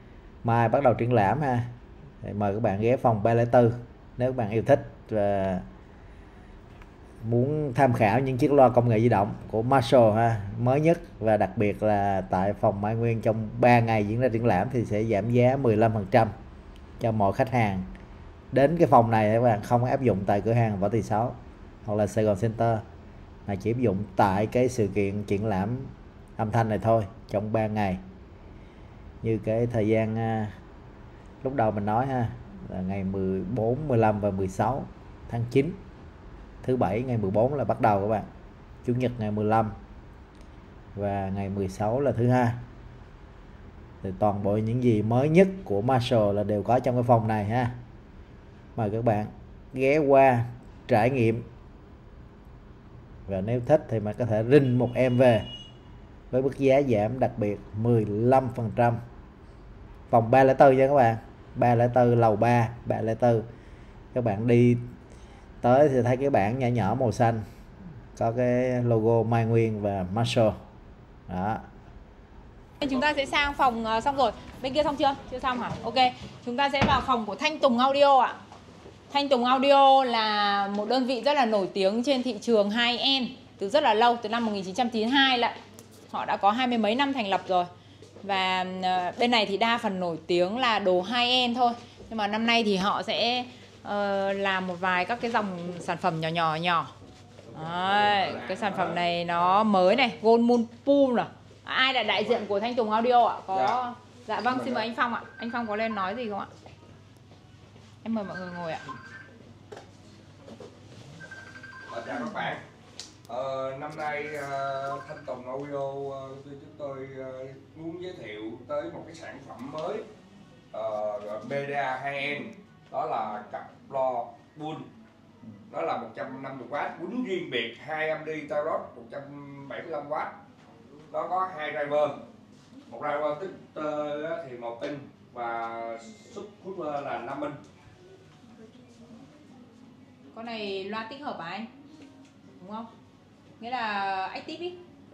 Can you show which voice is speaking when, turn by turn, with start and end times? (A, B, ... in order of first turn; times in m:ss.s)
0:00.4-0:05.6 A
0:07.2-0:16.3 A
0:17.0-0:17.9 A
0:18.5-0:22.8 A
0:23.5-0:28.0 A
0:29.2-0:30.5 A
0:31.4-0:35.8 A
0:36.6-0:38.3 A
0:38.8-0:39.7 A
0:40.9-0:42.6 A
0:44.0-0:47.8 A
0:48.8-0:51.4 A
0:53.3-0:55.5 A
0:56.3-0:59.0 A
1:00.1-1:03.4 A
1:04.1-1:04.9 A
1:05.6-1:07.4 A
1:08.2-1:10.6 A
1:11.3-1:11.6 A
1:12.8-1:18.4 B
1:19.1-1:25.5 B
1:26.1-1:27.7 B
1:28.2-1:36.9 B
1:37.5-1:46.5 B
1:38.1-1:39.0 C
1:43.5-1:43.8 C
1:48.0-1:48.8 B
1:51.9-1:52.6 C
1:53.3-2:00.0 C
2:00.7-2:04.8 C
2:05.7-2:10.3 C
2:11.1-2:12.2 C
2:12.9-2:17.6 C
2:20.3-2:21.7 B
2:22.6-2:22.9 B
2:23.6-2:24.8 B